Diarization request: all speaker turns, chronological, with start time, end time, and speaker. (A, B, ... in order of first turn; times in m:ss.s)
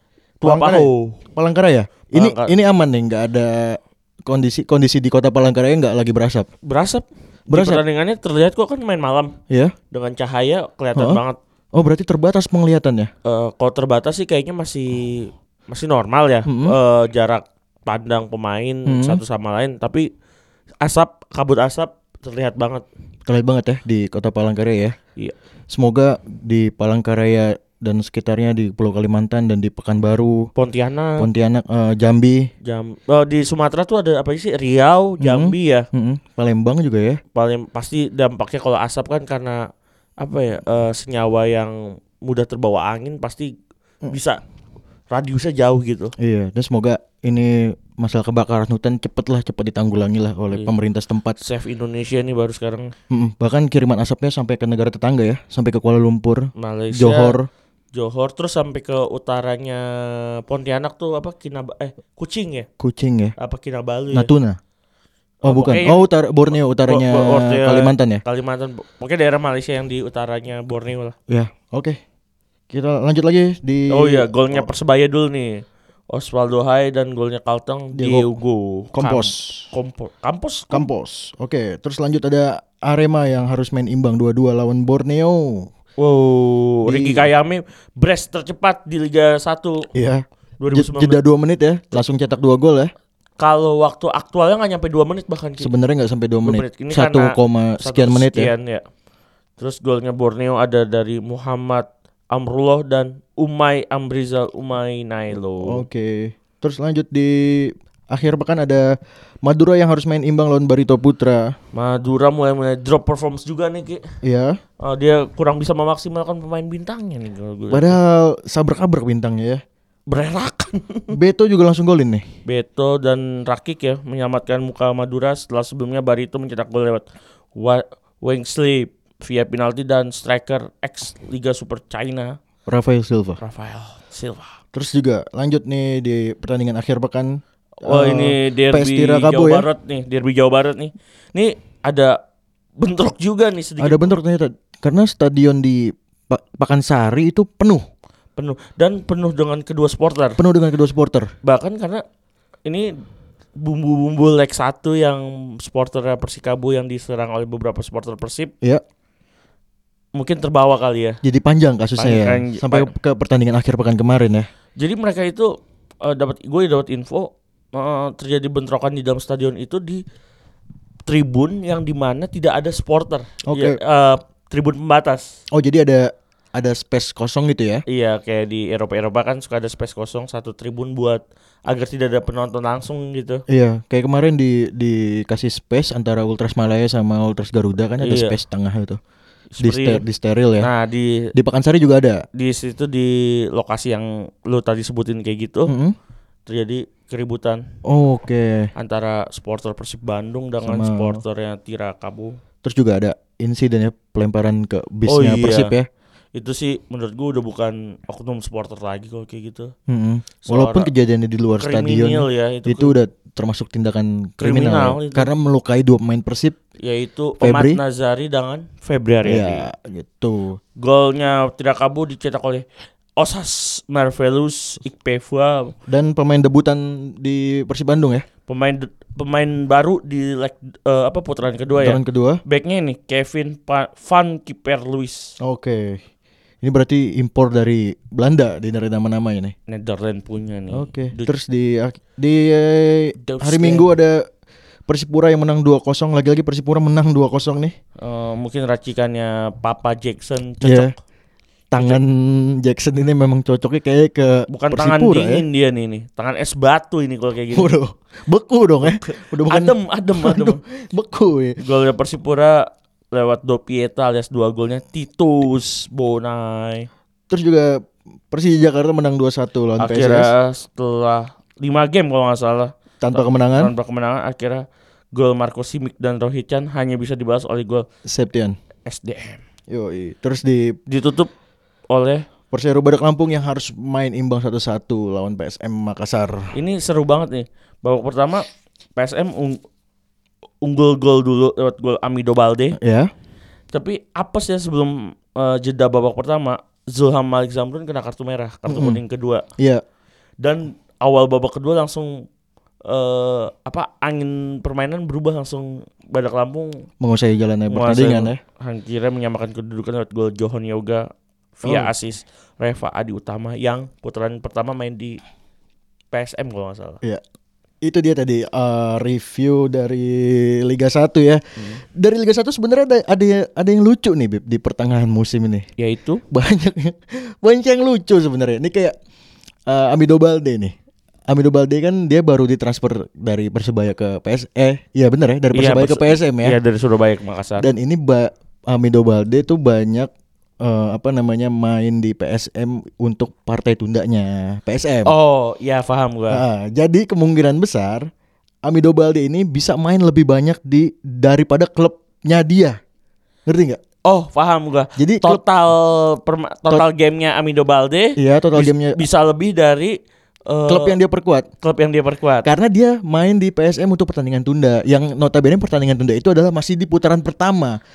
0:00.4-0:01.2 A
0:00.4-0:06.5 B
0:02.1-0:02.5 A
0:06.6-0:09.4 A
0:07.5-0:07.8 B
0:09.5-0:09.7 B
0:09.9-0:11.4 A
0:10.9-0:11.2 B
0:11.7-0:13.1 B
0:13.2-0:20.1 A
0:16.4-0:16.7 B
0:18.8-0:19.2 B
0:20.8-0:22.8 A
0:23.2-0:25.0 B
0:25.7-0:30.5 B
0:30.6-0:31.3 A
0:31.2-0:32.5 B
0:32.6-0:35.8 A
0:35.2-0:37.2 B
0:37.3-0:39.6 A
0:40.2-0:43.5 A
0:44.1-0:44.4 A
0:45.1-0:46.1 A
0:46.2-0:51.4 B
0:51.4-0:52.9 A
0:53.1-0:57.5 B
0:56.6-0:57.4 A
0:57.9-1:02.7 A
1:02.8-1:03.3 B
1:03.4-1:04.3 A
1:04.1-1:04.6 B
1:05.4-1:06.0 A
1:05.4-1:08.2 B
1:06.8-1:11.1 A
1:11.3-1:12.0 B
1:12.7-1:14.7 B
1:13.9-1:20.9 A
1:17.9-1:18.4 B
1:18.9-1:19.7 B
1:20.7-1:25.7 B
1:26.0-1:29.9 A
1:26.8-1:27.3 B
1:29.9-1:32.9 B
1:30.6-1:31.2 A
1:33.4-1:35.7 A
1:35.6-1:38.5 B
1:36.4-1:38.8 A
1:39.6-1:45.8 A
1:45.6-1:48.9 B
1:49.4-1:51.5 B
1:51.7-1:54.0 A
1:54.2-1:54.6 B
1:54.8-1:58.0 A
1:57.7-1:59.6 B
2:00.1-2:01.1 A
2:01.1-2:02.2 B
2:02.4-2:07.0 A
2:07.6-2:12.4 A
2:12.7-2:13.4 B
2:13.4-2:14.6 A
2:14.7-2:19.7 B
2:17.8-2:22.2 A
2:22.8-2:24.2 A
2:23.8-2:27.8 B
2:28.4-2:30.4 A
2:30.4-2:31.3 B
2:31.4-2:32.0 A
2:32.6-2:32.9 A
2:33.6-2:38.5 A
2:40.1-2:41.2 A
2:41.2-2:44.5 B
2:42.0-2:42.9 A
2:44.8-2:50.0 A
2:51.1-2:55.4 A
2:53.5-2:53.8 B
2:55.5-2:57.8 B
2:57.9-3:03.4 A
3:03.5-3:09.0 B
3:08.0-3:08.4 A
3:09.6-3:10.0 A
3:09.6-3:10.7 B
3:10.6-3:11.3 A
3:11.3-3:12.2 B
3:12.3-3:15.7 A
3:15.7-3:16.0 B
3:16.5-3:17.6 A
3:17.8-3:18.7 B
3:18.7-3:22.4 A
3:20.6-3:21.2 B
3:22.6-3:25.9 B
3:25.1-3:25.7 A
3:26.3-3:29.7 A
3:29.9-3:36.6 B
3:30.4-3:30.9 A
3:31.6-3:32.9 A
3:34.4-3:35.3 A
3:36.8-3:39.6 A
3:37.4-3:37.8 B
3:39.2-3:40.6 B
3:40.8-3:42.6 A
3:43.2-3:45.7 A
3:45.9-3:48.2 B
3:48.5-3:55.3 A
3:51.8-3:52.4 B
3:55.4-3:56.0 B
3:56.6-3:59.5 B
3:59.7-4:01.3 A
4:00.7-4:04.2 B
4:03.2-4:03.9 A
4:04.9-4:07.7 B
4:08.0-4:11.0 A
4:10.6-4:10.9 B
4:11.7-4:15.4 B
4:14.5-4:17.7 A
4:17.5-4:21.6 B
4:18.8-4:20.6 A
4:21.6-4:26.9 A
4:27.3-4:30.3 B
4:29.8-4:37.8 A
4:33.0-4:33.7 B
4:38.1-4:38.6 B
4:38.8-4:39.4 A
4:39.7-4:40.8 B
4:40.9-4:41.3 A
4:41.9-4:42.3 A
4:42.5-4:46.5 B
4:46.5-4:48.4 A
4:49.0-4:49.6 A
4:50.6-4:52.8 A
4:52.8-4:53.1 B
4:53.7-4:59.4 A
4:58.7-4:59.0 B
4:59.6-4:59.8 B
5:00.4-5:02.3 A
5:02.9-5:06.9 A
5:07.0-5:08.4 B
5:07.7-5:15.2 A
5:11.6-5:11.9 B
5:16.1-5:17.0 A
5:17.8-5:25.7 B
5:25.8-5:26.2 A
5:26.3-5:28.9 B
5:29.7-5:30.7 B
5:31.3-5:36.6 B
5:35.5-5:37.7 A
5:37.6-5:40.1 B
5:40.6-5:45.1 B
5:45.0-5:46.4 A
5:46.3-5:48.1 B
5:48.6-5:52.8 B
5:53.5-5:53.8 B
5:54.0-6:00.0 A
5:55.0-5:55.4 B
5:58.2-5:59.0 B
6:00.5-6:01.0 A
6:00.7-6:01.5 B
6:01.6-6:02.5 A
6:02.4-6:07.8 B